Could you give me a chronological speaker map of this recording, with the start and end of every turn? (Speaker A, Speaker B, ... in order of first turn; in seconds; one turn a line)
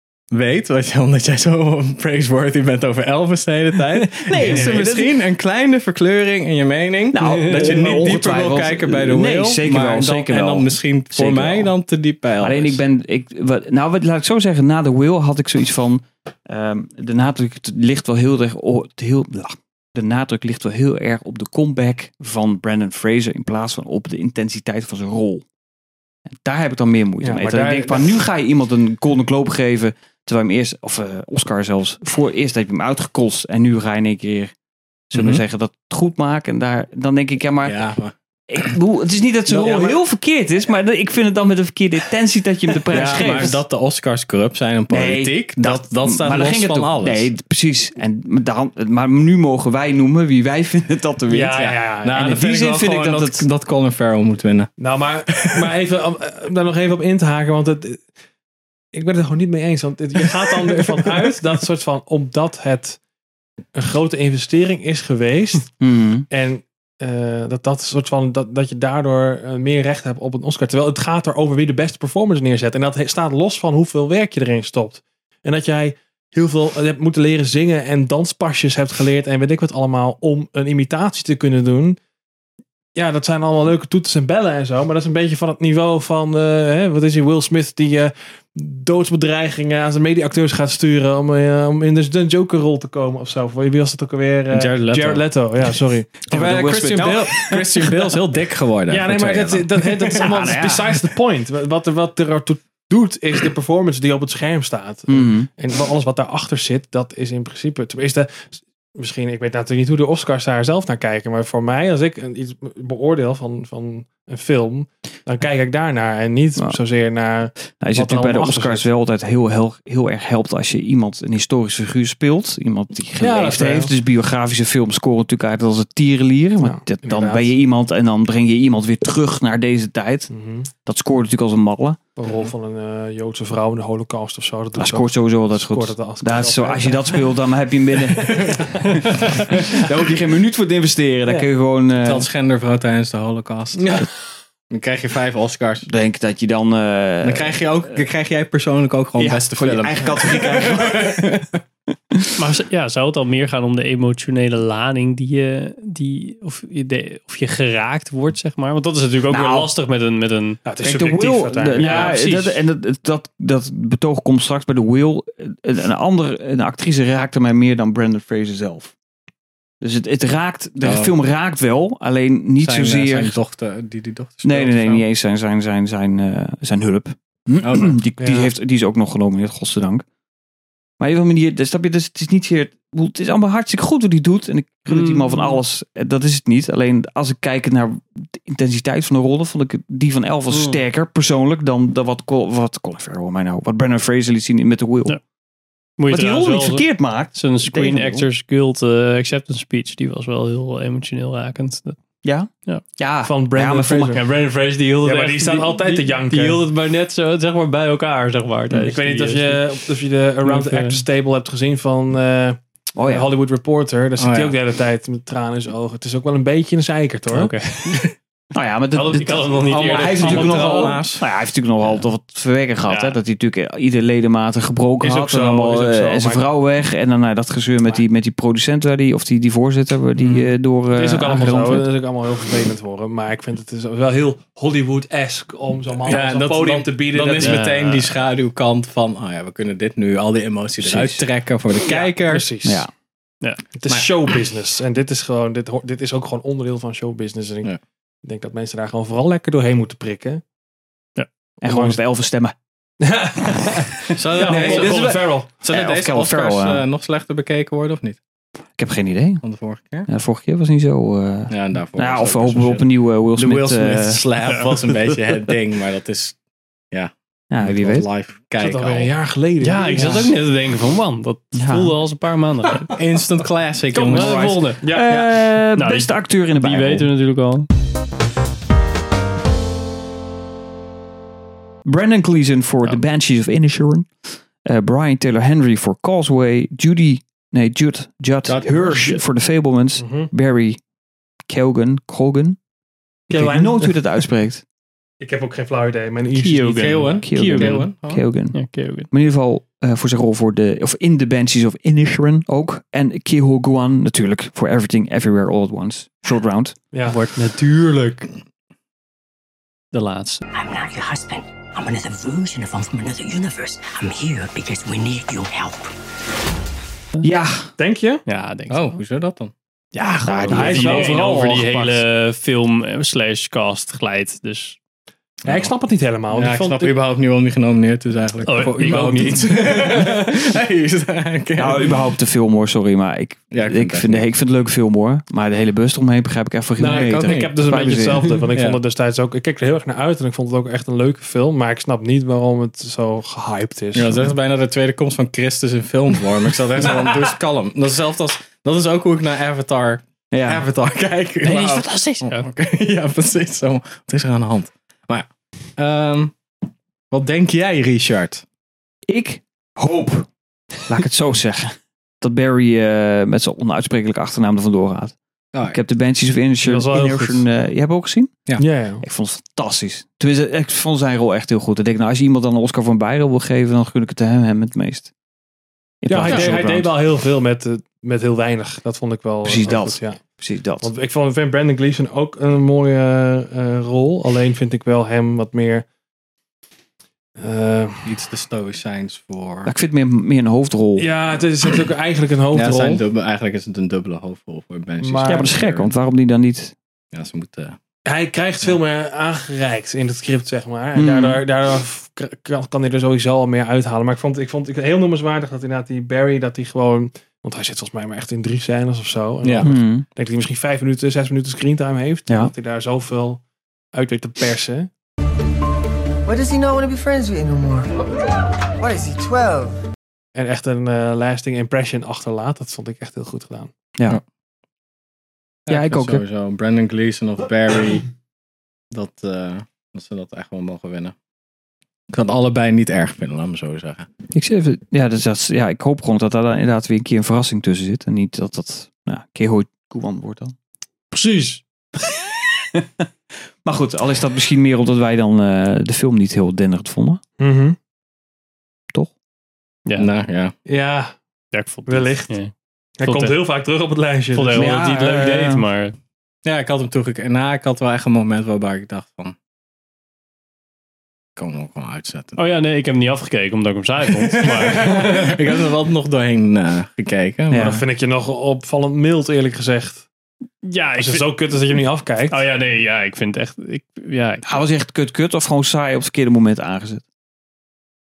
Speaker A: 0.3-12.8
Speaker B: 4.2-5.1
Speaker B: 7.1-11.7
Speaker C: 7.2-8.0
Speaker B: 12.4-25.4
Speaker B: 26.3-34.5
Speaker D: 27.2-28.2
Speaker B: 35.1-37.9
Speaker A: 35.1-35.4
Speaker A: 37.6-38.1
Speaker B: 38.5-43.6
Speaker D: 39.5-40.0
Speaker D: 42.9-43.5
Speaker A: 42.9-47.3
Speaker B: 44.9-53.4
Speaker D: 51.3-52.4
Speaker A: 51.6-54.7
Speaker D: 54.8-58.0
Speaker A: 55.4-55.7
Speaker D: 58.9-63.0
Speaker D: 63.7-65.7
Speaker B: 65.8-66.2
Speaker D: 66.3-82.0
Speaker D: 83.0-96.1
Speaker A: 94.5-95.2
Speaker B: 96.2-97.9
Speaker A: 96.3-100.5
Speaker D: 98.9-118.8
Speaker B: 100.1-100.9
Speaker B: 105.1-105.5
Speaker B: 117.8-130.3
Speaker D: 123.2-123.9
Speaker D: 126.6-127.5
Speaker D: 130.3-130.7
Speaker B: 130.8-132.0
Speaker D: 132.2-137.3
Speaker B: 134.8-142.3
Speaker A: 138.2-138.6
Speaker A: 142.0-144.1
Speaker A: 144.7-145.9
Speaker B: 145.9-147.9
Speaker A: 147.2-151.6
Speaker B: 149.2-151.4
Speaker C: 152.4-160.6
Speaker B: 159.3-159.7
Speaker D: 160.6-162.5
Speaker B: 160.8-168.9
Speaker C: 161.8-162.5
Speaker B: 169.8-173.4
Speaker A: 170.8-171.1
Speaker A: 172.6-175.0
Speaker B: 174.4-180.0
Speaker A: 177.6-178.0
Speaker D: 178.2-178.5
Speaker B: 181.0-195.2
Speaker C: 184.9-185.6
Speaker C: 196.0-202.0
Speaker B: 196.1-198.3
Speaker B: 202.2-204.2
Speaker D: 203.2-204.2
Speaker C: 204.2-209.8
Speaker D: 205.0-206.6
Speaker D: 208.7-217.5
Speaker C: 210.4-211.0
Speaker B: 212.9-213.3
Speaker A: 214.2-214.6
Speaker C: 217.3-218.0
Speaker B: 218.5-231.9
Speaker C: 218.9-221.0
Speaker A: 219.7-221.2
Speaker C: 222.9-223.2
Speaker D: 225.0-226.5
Speaker D: 230.3-237.6
Speaker A: 236.0-242.5
Speaker C: 237.3-238.0
Speaker B: 240.8-241.2
Speaker D: 241.8-242.8
Speaker B: 242.6-242.9
Speaker D: 243.7-247.7
Speaker D: 248.2-250.4
Speaker B: 251.6-252.5
Speaker D: 251.6-252.0
Speaker D: 253.0-255.5
Speaker A: 254.1-258.2
Speaker B: 254.4-256.8
Speaker B: 258.8-259.4
Speaker A: 259.4-260.1
Speaker B: 260.1-264.2
Speaker A: 261.5-266.4
Speaker C: 264.5-264.9
Speaker A: 266.9-269.1
Speaker B: 267.5-268.1
Speaker D: 268.6-270.3
Speaker C: 269.6-273.0
Speaker B: 271.5-271.9
Speaker A: 272.9-275.3
Speaker C: 273.9-274.8
Speaker D: 274.0-275.1
Speaker B: 274.9-277.1
Speaker C: 275.8-277.7
Speaker B: 281.8-284.1
Speaker B: 284.6-290.8
Speaker A: 288.4-289.1
Speaker D: 290.0-290.3
Speaker B: 291.5-292.6
Speaker D: 293.3-293.9
Speaker B: 293.3-294.6
Speaker D: 295.2-297.1
Speaker C: 296.3-297.9
Speaker A: 296.7-298.2
Speaker B: 297.2-306.8
Speaker C: 298.5-299.1
Speaker D: 306.9-307.2
Speaker C: 307.1-308.3
Speaker C: 309.9-310.4
Speaker E: 310.5-315.9
Speaker B: 317.2-317.7
Speaker D: 317.8-318.2
Speaker C: 318.3-319.0
Speaker A: 318.7-319.5
Speaker C: 319.9-324.8
Speaker B: 320.2-321.7
Speaker D: 320.5-321.9
Speaker A: 325.4-325.7
Speaker D: 325.4-326.9
Speaker A: 326.3-332.0
Speaker C: 328.4-329.3
Speaker D: 328.8-329.5
Speaker B: 331.6-338.3
Speaker A: 333.5-334.3
Speaker D: 336.8-344.3
Speaker A: 336.8-337.7
Speaker A: 338.5-338.8
Speaker A: 343.9-356.3
Speaker B: 350.3-350.6
Speaker C: 351.4-352.4
Speaker A: 357.1-358.4
Speaker B: 359.1-360.3
Speaker B: 360.9-365.1
Speaker A: 365.5-365.8
Speaker B: 365.6-375.1
Speaker D: 366.6-367.4
Speaker D: 368.6-369.0
Speaker B: 376.0-376.9
Speaker D: 376.1-380.2
Speaker A: 376.3-376.5
Speaker B: 379.4-380.9
Speaker D: 380.8-385.9
Speaker D: 387.4-388.1
Speaker A: 388.0-389.7
Speaker B: 389.6-391.1
Speaker D: 391.0-393.0
Speaker A: 392.5-395.9
Speaker D: 395.0-395.5
Speaker B: 395.2-396.7
Speaker A: 397.1-397.8
Speaker D: 398.1-413.4
Speaker B: 400.9-401.4
Speaker A: 409.4-409.7
Speaker B: 409.6-410.1
Speaker D: 413.9-414.9
Speaker F: 416.2-417.9
Speaker F: 418.8-419.8
Speaker D: 420.3-423.7
Speaker A: 425.6-428.1
Speaker B: 425.7-426.2
Speaker A: 428.9-431.1
Speaker A: 432.1-434.1
Speaker B: 434.3-440.5
Speaker D: 441.1-441.6
Speaker B: 442.7-443.1
Speaker B: 443.6-447.2
Speaker D: 447.4-447.8
Speaker A: 449.9-450.5
Speaker D: 450.6-451.1
Speaker C: 451.5-452.5
Speaker D: 451.9-452.4
Speaker D: 453.0-454.7
Speaker C: 453.0-453.4
Speaker C: 454.3-455.9
Speaker B: 454.5-455.6
Speaker A: 456.4-459.3
Speaker A: 461.4-462.4
Speaker C: 462.4-465.4
Speaker A: 464.2-467.8
Speaker B: 467.5-467.8
Speaker D: 467.5-470.1
Speaker C: 470.6-471.3
Speaker D: 470.9-472.4
Speaker C: 472.3-474.5
Speaker B: 474.4-477.0